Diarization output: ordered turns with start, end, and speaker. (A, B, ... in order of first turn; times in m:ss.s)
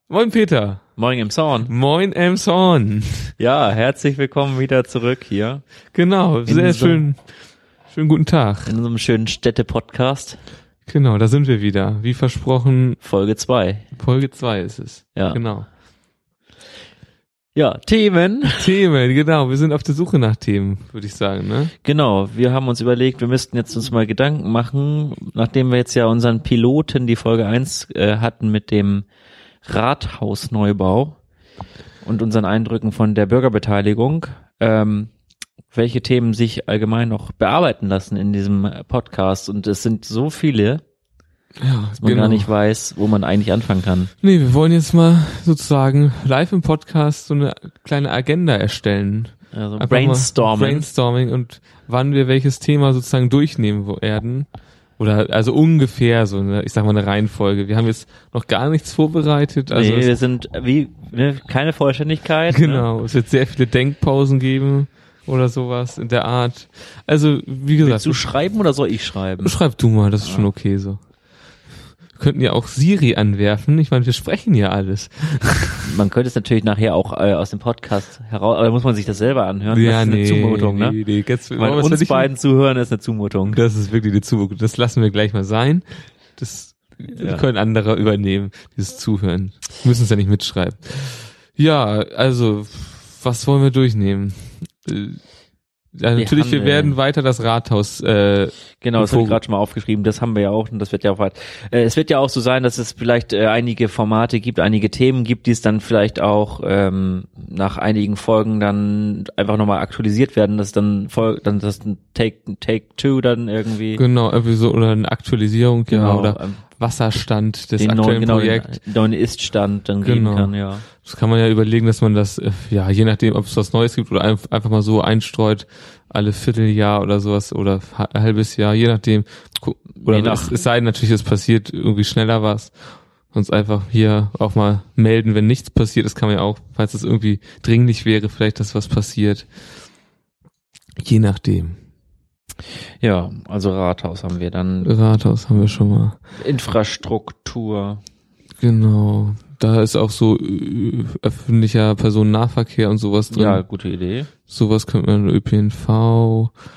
0:00.1-0:00.8 A
0:01.0-0:01.7 B
0:01.7-0:03.3 A
0:03.4-0:05.6 B
0:05.9-0:07.2 A
0:06.4-0:07.1 B
0:07.9-0:08.7 A
0:08.7-0:10.4 B
0:10.9-0:13.0 A
0:13.0-0:13.9 B
0:14.0-0:15.7 A
0:15.2-0:15.4 B
0:17.6-0:18.7 B
0:18.5-0:21.7 A
0:21.8-0:29.1 B
0:29.6-0:31.2 B
0:32.0-0:35.1 B
0:35.7-0:40.8 B
0:41.6-0:42.5 A
0:42.0-0:44.1 B
0:44.2-0:54.5 A
0:49.5-0:50.9 B
0:55.0-1:00.1 A
0:59.7-1:02.9 B
1:02.5-1:08.3 A
1:07.8-1:09.6 B
1:09.4-1:11.0 A
1:10.2-1:10.5 B
1:12.2-1:16.0 A
1:15.8-1:21.0 B
1:19.7-1:22.3 A
1:21.6-1:23.6 B
1:23.5-1:35.2 A
1:27.1-1:27.4 B
1:36.0-1:39.4 A
1:36.2-1:37.0 B
1:38.8-1:54.0 B
1:54.0-1:58.8 A
1:55.9-1:56.6 B
1:57.8-2:00.9 B
2:00.0-2:12.8 A
2:10.0-2:10.6 B
2:13.3-2:19.5 A
2:21.0-2:21.8 A
2:23.0-2:25.2 B
2:24.8-2:26.2 A
2:26.4-2:28.0 B
2:28.6-2:33.6 A
2:33.3-2:34.3 B
2:34.5-2:36.5 A